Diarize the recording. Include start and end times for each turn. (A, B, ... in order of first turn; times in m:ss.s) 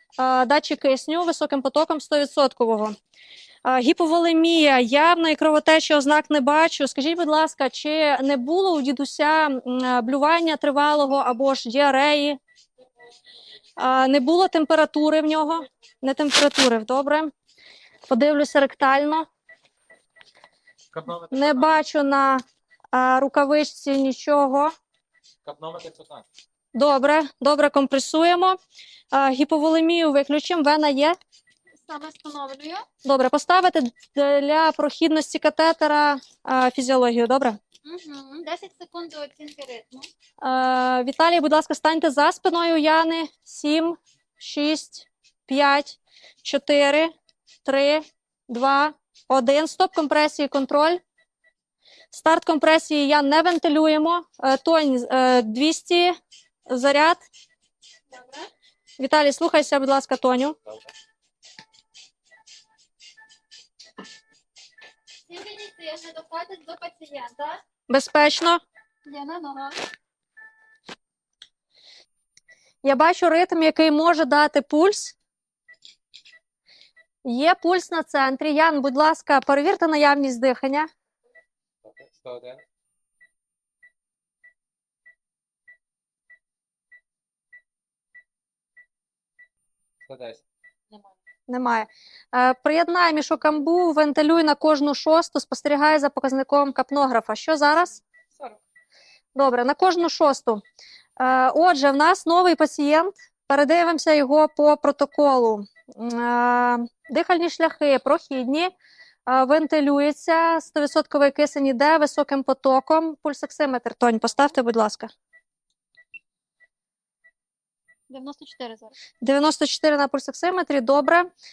0:00.2-0:03.0 A
0:03.6-0:12.4 A
0:13.8-0:17.3 A
0:18.1-0:19.2 A
0:20.9-0:21.8 B
0:21.3-0:24.7 A
0:25.4-0:26.2 B
0:26.8-0:28.6 A
0:29.1-0:31.2 A
0:31.8-0:32.9 C
0:33.0-0:37.6 A
0:37.8-0:40.1 C
0:40.4-0:47.1 A
0:47.6-0:51.0 A
0:52.1-0:56.2 A
0:56.7-0:57.2 A
0:58.1-0:58.5 C
0:59.0-1:00.6 A
1:05.3-1:07.6 C
1:07.9-1:08.6 A
1:09.1-1:09.8 C
1:12.8-1:15.2 A
1:17.2-1:20.9 A
1:21.8-1:22.6 B
1:30.1-1:30.4 B
1:31.5-1:38.0 A
1:39.4-1:40.6 A
1:41.2-1:48.7 A
1:49.3-1:55.1 A
1:58.1-1:58.9 C
1:59.2-2:01.3 A